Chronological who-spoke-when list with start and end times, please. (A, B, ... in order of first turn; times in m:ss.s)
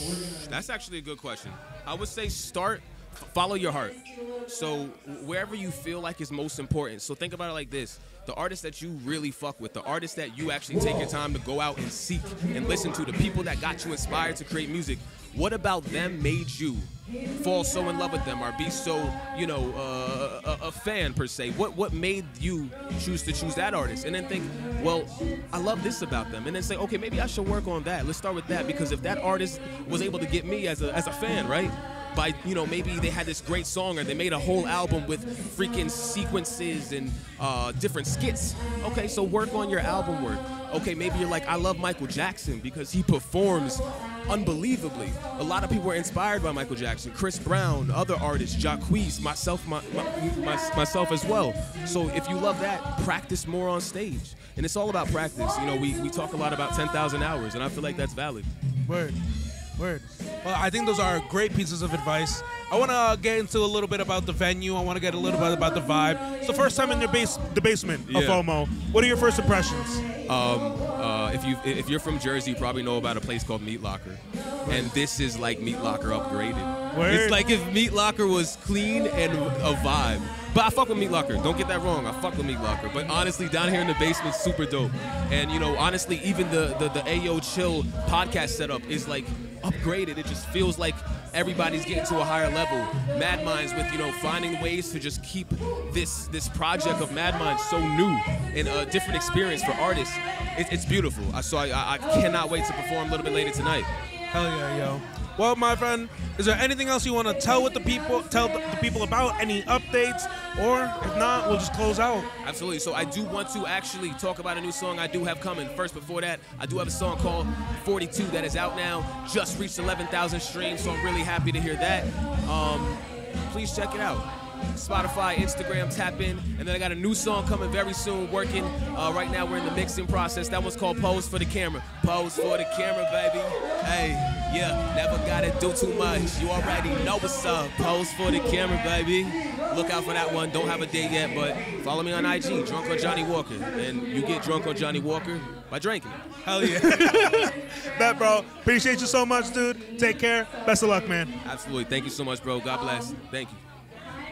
0:00.4-0:58.5 A
0:58.9-0:59.2 B
0:59.8-1:10.0 B
1:08.1-1:08.4 A
1:10.3-1:43.9 A
1:14.6-1:14.9 B
1:16.9-1:17.4 B
1:44.3-1:52.3 B
1:52.4-2:27.5 A
2:26.4-2:31.3 B
2:31.4-2:33.6 A